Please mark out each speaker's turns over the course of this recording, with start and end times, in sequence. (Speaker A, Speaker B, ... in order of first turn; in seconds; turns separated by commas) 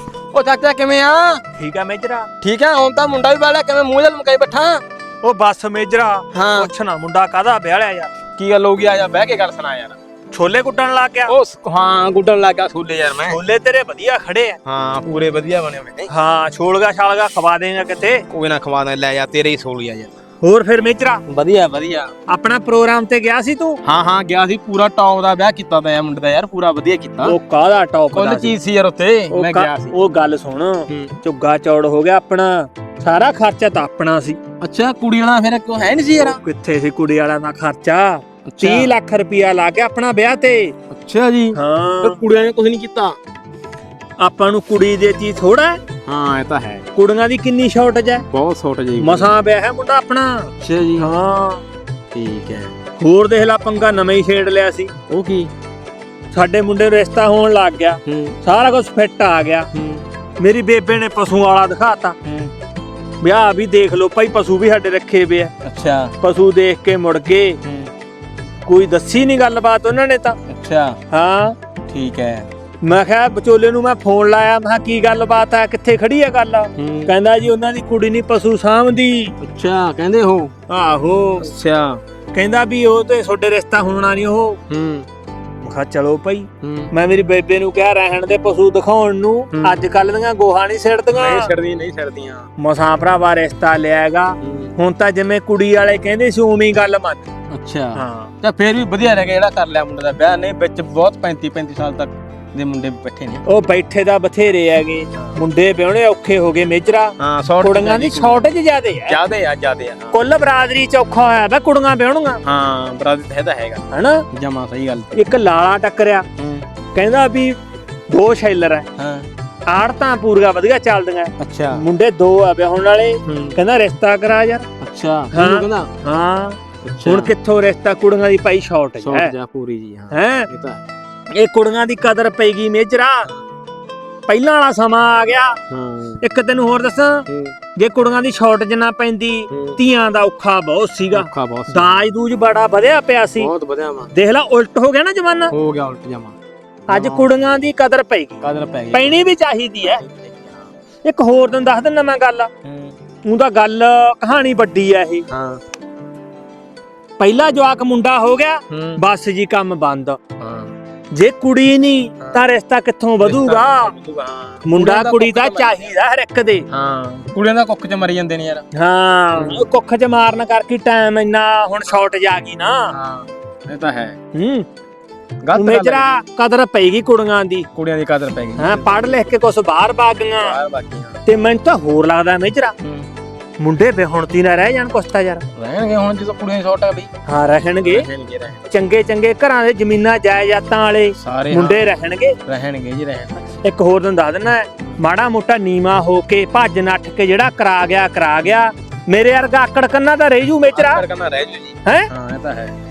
Speaker A: 0.3-1.4, Speaker B: 1.6-2.3, Speaker A: 2.4-4.8, Speaker B: 5.2-8.1, Speaker A: 6.3-6.7, Speaker A: 8.4-10.0, Speaker B: 10.3-11.3, Speaker A: 11.3-13.4, Speaker B: 13.3-14.6, Speaker A: 14.7-16.1, Speaker B: 16.1-18.2, Speaker A: 18.3-20.2, Speaker B: 20.4-21.2, Speaker A: 21.3-22.1, Speaker B: 22.3-23.8, Speaker A: 23.8-27.4, Speaker B: 27.2-28.6, Speaker A: 28.1-29.9, Speaker B: 29.3-34.4, Speaker A: 30.9-31.1, Speaker A: 34.6-36.4, Speaker B: 36.2-40.7, Speaker A: 38.5-38.9, Speaker A: 40.9-43.2, Speaker B: 41.5-42.2, Speaker B: 44.2-45.8, Speaker A: 46.1-46.9, Speaker B: 47.0-48.3, Speaker A: 48.3-49.3, Speaker B: 49.0-51.6, Speaker A: 50.6-51.1, Speaker A: 52.1-52.7, Speaker B: 53.0-54.9, Speaker A: 55.1-55.5, Speaker B: 56.3-59.7, Speaker A: 58.1-58.4, Speaker A: 59.7-60.0, Speaker B: 60.4-62.2, Speaker A: 62.2-62.5, Speaker B: 63.2-65.5, Speaker A: 65.6-66.2, Speaker B: 66.2-67.6, Speaker A: 67.6-67.9, Speaker B: 68.7-70.4, Speaker A: 70.5-71.0, Speaker B: 71.1-71.6, Speaker A: 71.9-72.5, Speaker B: 72.8-79.3, Speaker A: 76.8-77.1, Speaker A: 79.4-80.5, Speaker B: 80.7-81.5, Speaker A: 81.4-82.0, Speaker B: 82.3-84.6, Speaker A: 84.7-85.1, Speaker B: 85.6-91.5, Speaker A: 86.6-86.9, Speaker A: 89.5-89.8, Speaker A: 91.1-92.5, Speaker B: 92.6-97.3, Speaker A: 94.4-94.8, Speaker A: 97.5-103.4, Speaker B: 98.0-98.3, Speaker B: 103.5-109.2, Speaker A: 107.2-108.5, Speaker A: 109.1-110.2, Speaker B: 110.1-112.4, Speaker A: 112.4-115.2, Speaker B: 113.9-114.2, Speaker B: 115.1-116.2, Speaker A: 116.4-116.7, Speaker B: 117.0-117.6, Speaker B: 118.1-118.9, Speaker A: 119.0-119.3, Speaker B: 119.7-124.6, Speaker A: 121.4-121.8, Speaker A: 123.3-123.5, Speaker A: 124.8-125.9, Speaker B: 125.3-129.3, Speaker A: 126.8-127.3, Speaker A: 129.0-130.8, Speaker B: 130.1-130.5, Speaker B: 131.3-133.3, Speaker B: 134.3-135.6, Speaker A: 135.7-136.2, Speaker B: 136.2-137.2, Speaker A: 137.3-137.6, Speaker B: 137.8-143.5, Speaker A: 139.5-139.8, Speaker A: 141.1-142.0, Speaker A: 143.4-144.1, Speaker B: 144.1-145.5, Speaker A: 145.5-146.4, Speaker B: 146.9-150.0, Speaker A: 146.9-147.3, Speaker A: 148.4-149.2, Speaker A: 149.8-150.6, Speaker B: 151.0-152.5, Speaker A: 152.7-152.9, Speaker B: 153.2-155.3, Speaker A: 155.3-155.6, Speaker B: 157.2-160.2, Speaker A: 158.7-159.0, Speaker A: 160.4-160.7, Speaker B: 161.1-163.9, Speaker A: 163.2-165.9, Speaker B: 164.6-166.7, Speaker A: 166.7-168.7, Speaker B: 168.7-172.9, Speaker A: 169.3-169.6, Speaker A: 172.9-174.2, Speaker B: 174.3-174.7, Speaker A: 175.4-176.1, Speaker B: 175.5-177.7, Speaker A: 177.8-179.3, Speaker B: 178.6-180.6, Speaker A: 180.4-181.2, Speaker B: 181.2-182.7, Speaker A: 182.8-183.1, Speaker B: 183.6-185.4, Speaker A: 185.6-187.1, Speaker B: 187.3-188.1, Speaker A: 187.8-188.6, Speaker B: 188.7-192.4, Speaker A: 191.2-191.9, Speaker A: 192.5-193.4, Speaker B: 193.6-201.1, Speaker A: 200.7-202.8